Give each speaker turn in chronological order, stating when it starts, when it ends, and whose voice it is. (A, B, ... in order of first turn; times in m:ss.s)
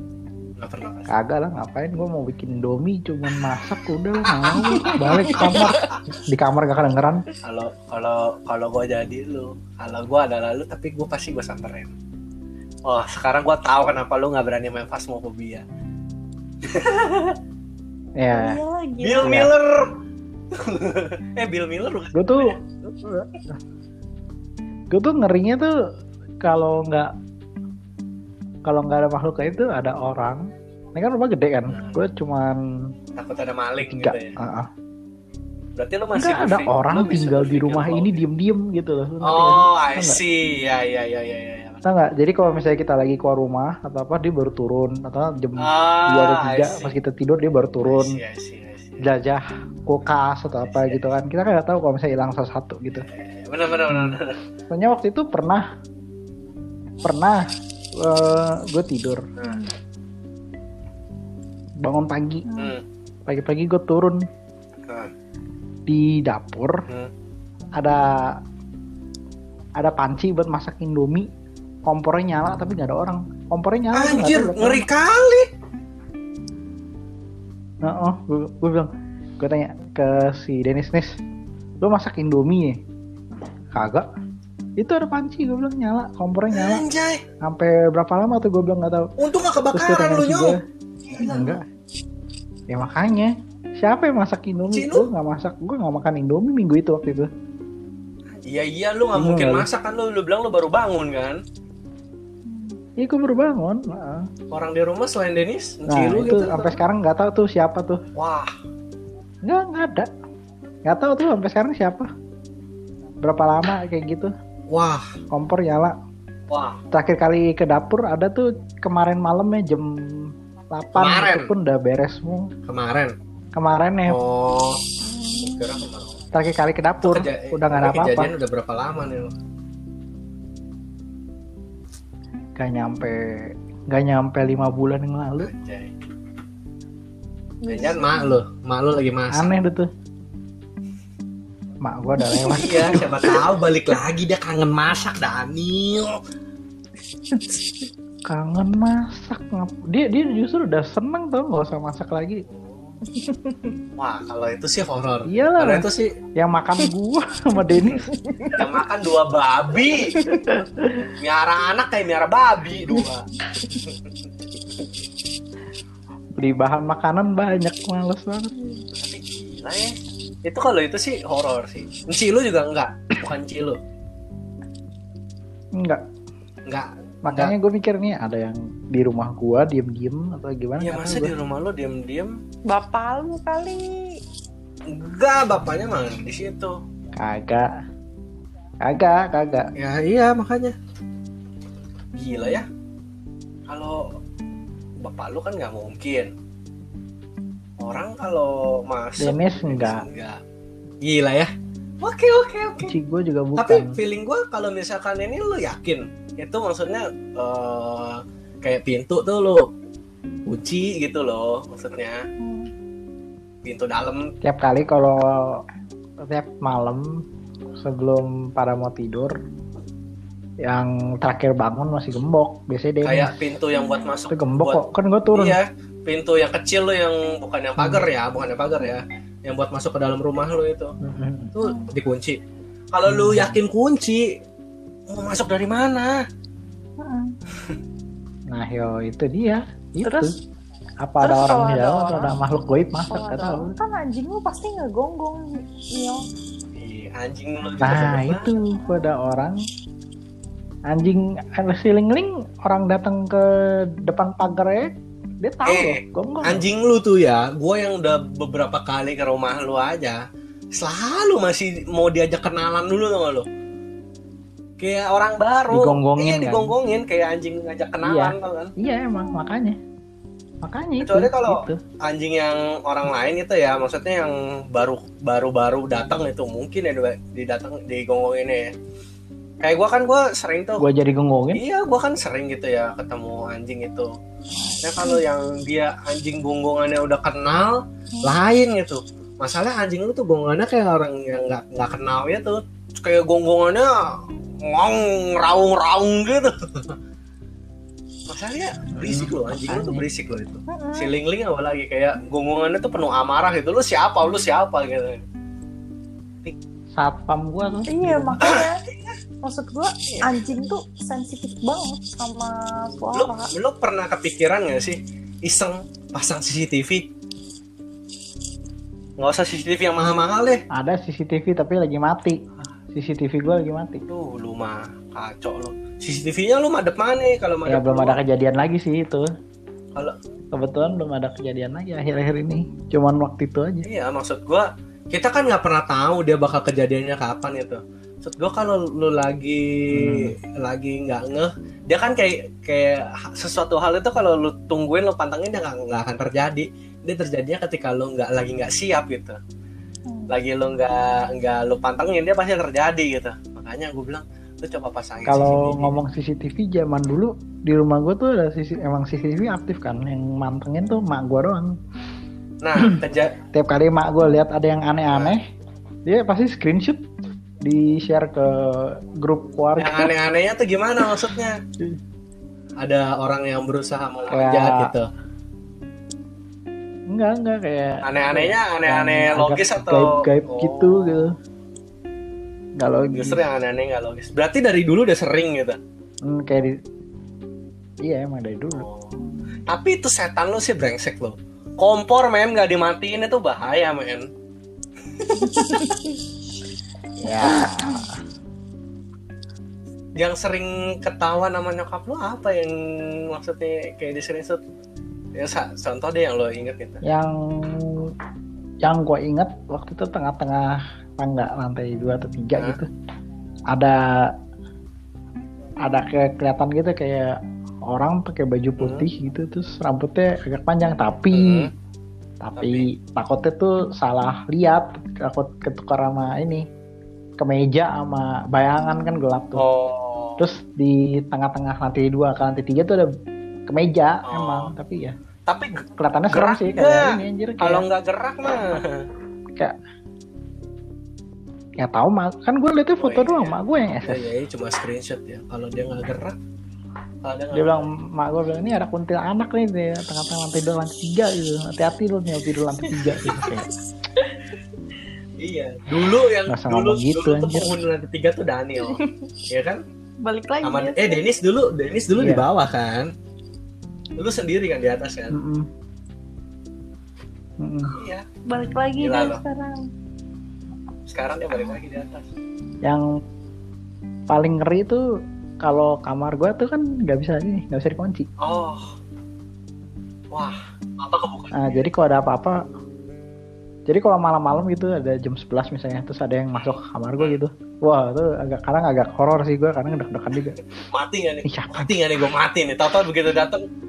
0:00.6-0:01.1 A
0:01.1-0:07.2 B
0:04.2-0:06.0 A
0:07.4-0:11.9 A
0:12.8-0:15.6 A
0:16.6-0:17.4 A
0:18.2-0:18.6 B
0:18.3-0:19.4 C
0:19.0-0:19.9 A
0:19.2-0:19.5 B
0:20.5-0:22.8 A
0:22.1-0:23.3 B
0:24.9-0:25.7 B
0:26.4-0:27.1 B
0:28.6-0:32.6 B
0:31.7-0:32.0 A
0:33.2-0:34.4 A
0:33.8-0:34.7 B
0:35.8-0:38.2 A
0:36.2-0:40.2 B
0:39.2-0:41.9 A
0:41.8-0:48.2 B
0:45.6-0:46.9 A
0:47.8-0:49.1 A
0:49.0-0:53.1 B
0:50.6-0:51.0 A
0:52.9-0:54.4 A
0:53.9-0:55.6 B
0:57.0-0:57.4 B
0:58.0-0:59.2 B
0:59.4-0:59.7 C
1:01.8-1:02.4 B
1:02.4-1:02.7 C
1:02.5-1:02.8 A
1:03.2-1:04.2 B
1:05.9-1:06.8 B
1:07.8-1:08.4 B
1:09.8-1:11.3 B
1:11.8-1:14.8 B
1:13.9-1:15.5 A
1:17.8-1:21.2 B
1:21.8-1:22.8 B
1:23.7-1:24.1 B
1:24.8-1:26.8 B
1:26.5-1:27.2 A
1:27.4-1:29.1 B
1:29.2-1:31.6 A
1:29.7-1:30.6 B
1:31.2-1:31.6 B
1:32.7-1:37.3 B
1:34.7-1:35.1 A
1:38.4-1:41.4 A
1:39.2-1:39.7 B
1:42.5-1:42.8 C
1:43.0-1:44.3 B
1:44.5-1:46.8 A
1:45.9-1:48.0 B
1:48.1-1:48.5 A
1:49.4-1:50.1 B
1:50.9-1:52.1 B
1:53.2-1:54.3 B
1:54.7-1:55.1 A
1:55.3-1:55.9 B
1:56.5-1:56.8 A
1:56.9-2:02.5 B
2:01.0-2:01.5 A
2:02.6-2:03.1 A
2:03.5-2:04.2 B
2:04.1-2:04.8 A
2:05.0-2:05.8 C
2:05.4-2:06.2 A
2:06.3-2:08.3 B
2:07.0-2:09.3 A
2:12.6-2:15.5 B
2:15.4-2:15.9 A
2:17.6-2:18.4 C
2:17.7-2:19.5 A
2:19.3-2:19.9 B
2:21.8-2:23.4 B
2:22.5-2:26.2 A
2:28.2-2:32.4 B
2:32.4-2:33.0 A
2:33.1-2:33.7 C
2:34.0-2:36.1 A
2:35.2-2:38.1 B
2:37.7-2:38.6 C
2:38.5-2:40.3 A
2:40.1-2:40.5 C
2:40.5-2:41.0 B
2:41.1-2:43.2 A
2:46.4-2:48.5 B
2:48.6-2:48.8 C
2:48.9-2:49.9 A
2:50.4-2:53.8 A
2:55.8-2:56.0 B
2:56.7-2:57.5 A
2:57.2-3:01.3 B
3:00.8-3:02.3 A
3:02.7-3:04.1 C
3:04.9-3:06.7 A
3:07.1-3:07.7 B
3:08.8-3:09.7 B
3:09.8-3:10.7 A
3:12.1-3:12.6 A
3:13.7-3:14.1 A
3:15.0-3:16.3 A
3:17.8-3:20.4 A
3:19.2-3:20.0 B
3:21.0-3:22.9 A
3:22.8-3:24.0 B
3:23.6-3:29.6 A
3:30.5-3:32.2 A
3:32.4-3:32.7 C
3:33.6-3:34.3 A
3:34.4-3:35.6 B
3:36.2-3:37.0 B
3:37.8-3:39.3 B
3:40.6-3:43.4 B
3:43.0-3:44.8 A
3:43.7-3:44.1 C
3:44.3-3:45.6 B
3:45.3-3:50.9 A
3:47.8-3:48.1 B
3:51.0-3:51.5 B
3:51.5-3:52.4 A
3:51.6-3:51.9 C
3:52.9-3:54.3 A
3:53.0-3:53.6 B
3:55.1-3:56.2 A
3:57.0-3:57.3 C
3:58.5-4:00.3 B
4:00.0-4:00.3 C
4:01.0-4:03.7 B
4:01.2-4:02.4 C
4:03.1-4:06.2 C
4:06.8-4:08.5 A
4:07.8-4:09.6 B
4:10.9-4:16.6 B
4:15.6-4:20.2 A
4:20.7-4:23.5 A
4:24.8-4:28.7 A
4:25.7-4:26.7 B
4:28.0-4:29.8 B
4:30.6-4:31.8 B
4:31.0-4:38.7 A
4:39.6-4:40.8 A
4:40.8-4:41.6 B
4:41.5-4:44.1 A
4:44.6-4:45.2 C
4:44.8-4:57.0 A
4:58.3-5:05.2 A
4:59.0-5:00.0 B
5:00.7-5:01.1 C
5:06.9-5:08.4 B
5:07.9-5:08.8 C
5:08.4-5:09.1 A
5:09.4-5:13.5 C
5:10.1-5:10.4 A
5:13.1-5:17.1 A
5:19.2-5:20.6 A
5:20.7-5:22.4 B
5:22.9-5:24.0 B
5:24.1-5:28.2 A
5:27.6-5:29.3 B
5:30.5-5:33.9 B
5:33.8-5:49.4 A
5:39.9-5:40.3 B
5:50.1-5:50.3 C
5:50.3-5:55.9 A
5:55.2-6:01.7 B
6:02.6-6:03.4 A
6:03.5-6:05.4 B
6:05.1-6:05.4 A
6:06.0-6:07.0 B
6:07.6-6:10.1 B
6:09.8-6:11.6 A
6:12.8-6:15.1 A
6:14.3-6:14.9 B
6:17.1-6:21.4 B
6:18.0-6:21.3 A
6:22.8-6:23.5 B
6:23.1-6:25.8 A
6:26.2-6:26.8 B
6:28.0-6:28.8 B
6:28.7-6:34.3 A
6:35.2-6:35.9 A
6:35.4-6:36.1 C
6:37.2-6:38.2 B
6:37.4-6:37.9 C
6:40.2-6:44.6 A
6:45.3-6:47.0 A
6:47.0-6:48.1 B
6:48.8-6:52.9 B
6:53.7-6:54.3 B
6:55.8-7:01.7 B
6:58.8-6:59.1 A
7:01.3-7:01.7 A
7:02.4-7:06.6 B
7:02.6-7:02.9 A
7:07.4-7:09.6 B
7:09.6-7:10.5 A
7:10.4-7:13.1 B
7:13.7-7:15.1 B
7:14.3-7:14.7 A
7:15.5-7:19.0 A
7:16.0-7:17.8 B
7:21.8-7:24.3 B
7:23.0-7:26.4 A
7:27.2-7:27.8 A
7:27.5-7:33.7 B
7:33.2-7:33.5 A
7:35.4-7:39.8 A
7:36.5-7:37.8 B
7:38.8-7:39.2 C
7:40.2-7:41.2 C
7:40.6-7:43.1 A
7:42.2-7:42.4 B
7:44.2-7:45.4 A
7:45.3-7:45.7 B
7:47.6-7:48.0 B
7:48.0-7:48.2 A
7:48.5-7:49.8 C
7:49.0-7:49.4 A
7:51.1-7:52.3 A
7:52.8-7:53.1 B
7:54.3-7:55.0 B
7:55.6-7:58.3 B
7:58.4-7:58.9 A
8:00.3-8:01.8 A
8:01.5-8:02.6 B
8:03.9-8:10.6 B
8:06.5-8:07.4 A
8:10.9-8:13.6 A
8:11.4-8:11.9 B